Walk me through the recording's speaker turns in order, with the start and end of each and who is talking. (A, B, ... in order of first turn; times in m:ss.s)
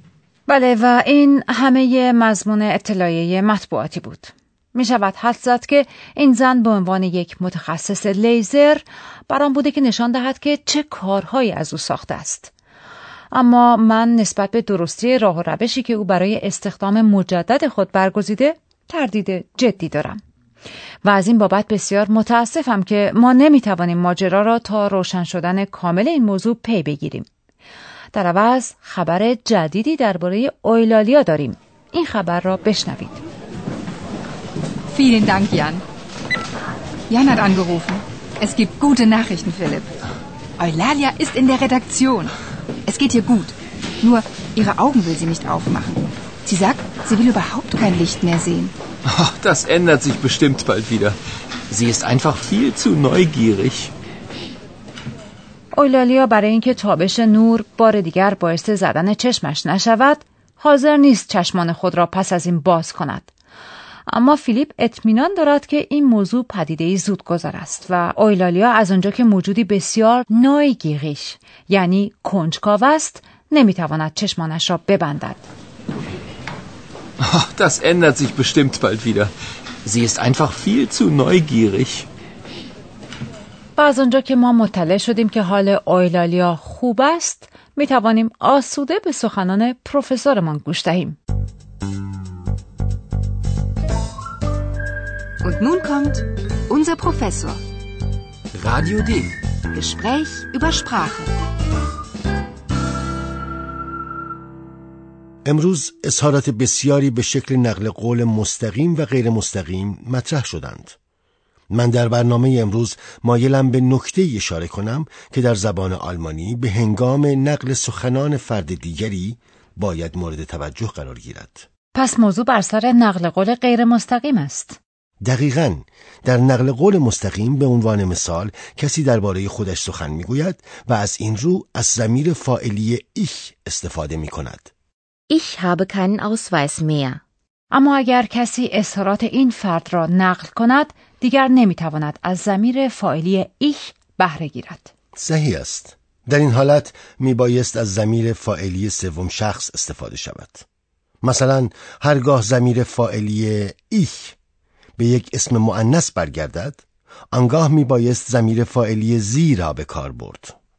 0:00.5-0:12.5 A
0:13.3-0:20.2 A
0:21.0-0:27.3 A
0:28.1-0:33.2 A
0:34.9-0:35.8 B
0:37.1-0:39.9 B
0:40.6-0:42.3 B
0:42.9-0:48.7 B
0:49.0-0:51.2 C
0:51.7-0:53.9 C
0:55.7-1:03.3 A
1:04.1-1:15.4 A
1:17.2-1:19.3 C
1:19.8-1:22.1 C
1:23.8-1:31.2 A
1:35.4-1:37.6 B
1:38.5-1:39.3 C
1:39.7-1:41.3 B
1:45.4-1:51.0 D
1:51.7-2:01.6 D
2:01.9-2:04.8 A
2:05.2-2:14.7 D
2:15.3-2:17.2 E
2:17.7-2:24.9 A
2:25.2-2:30.6 D
2:31.2-2:34.4 D
2:35.0-2:40.5 D